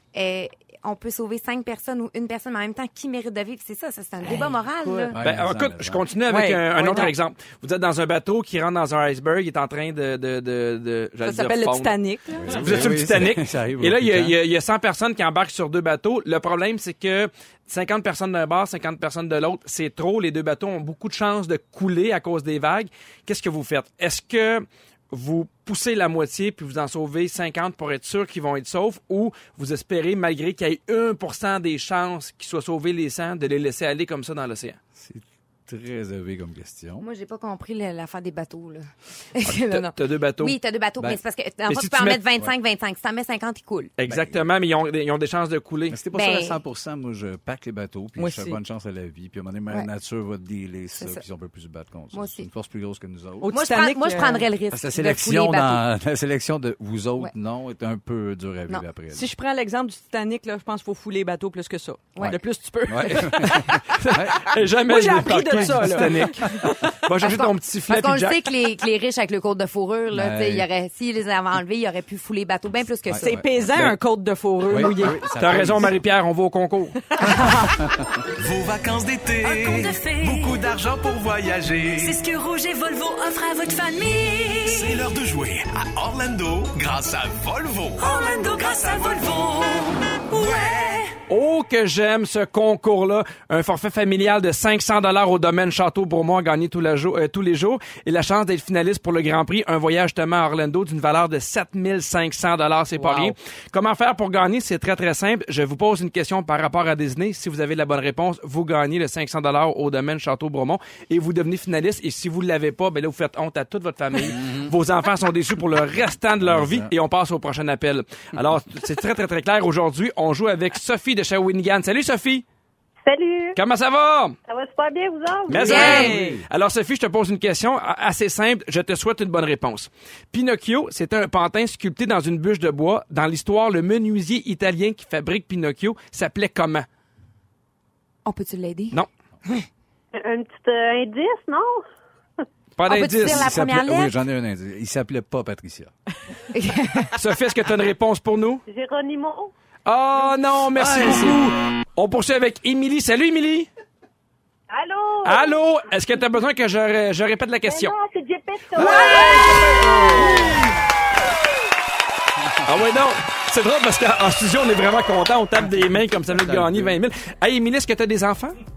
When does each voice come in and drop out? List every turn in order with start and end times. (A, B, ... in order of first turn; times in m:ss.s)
0:00.1-0:05.2 A
0:04.3-0:06.0 B
0:05.2-0:12.0 C
0:06.3-0:07.1 D
0:11.2-0:12.8 D
0:12.4-0:14.4 B
0:12.5-0:34.8 C
0:35.0-0:37.1 B
0:37.0-0:43.9 A
0:39.4-0:40.6 C
0:41.7-0:42.2 C
0:44.0-0:46.0 C
0:44.1-0:44.5 B
0:45.9-0:53.5 B
0:46.1-0:46.6 A
0:48.2-0:48.6 D
0:52.1-0:52.5 A
0:53.4-0:54.5 D
0:53.5-0:55.8 A
0:54.7-0:59.3 B
0:59.1-1:03.9 D
1:02.2-1:04.6 B
1:03.4-1:08.5 C
1:04.8-1:06.7 D
1:05.6-1:06.8 B
1:07.2-1:13.4 A
1:10.1-1:10.7 B
1:13.1-1:13.9 B
1:13.2-1:15.3 D
1:14.7-1:15.9 B
1:15.4-1:17.1 C
1:17.2-1:17.8 D
1:17.8-1:18.2 B
1:18.4-1:19.5 E
1:19.4-1:20.7 F
1:20.3-1:21.8 E
1:21.8-1:25.1 F
1:25.1-1:27.8 E
1:28.0-1:31.2 F
1:31.3-2:02.4 C
1:43.0-1:43.3 D
1:54.3-1:54.7 B
1:56.0-1:56.9 B
2:03.1-2:03.6 G
2:03.6-2:04.4 C
2:04.5-2:06.1 G
2:05.5-2:06.4 B
2:05.5-2:16.9 C
2:05.6-2:06.4 D
2:05.7-2:06.1 A
2:18.3-2:19.7 A
2:20.1-2:21.8 G
2:22.8-2:23.5 C
2:22.9-2:24.1 A
2:23.2-2:25.9 B
2:26.5-2:27.2 A
2:27.2-2:28.6 C
2:28.7-2:29.5 G
2:29.9-2:33.7 C
2:30.7-2:31.5 B
2:34.7-2:35.6 G
2:35.2-2:38.0 C
2:37.6-2:40.2 G
2:38.7-2:40.7 B
2:42.6-2:48.6 C
2:46.3-2:47.0 B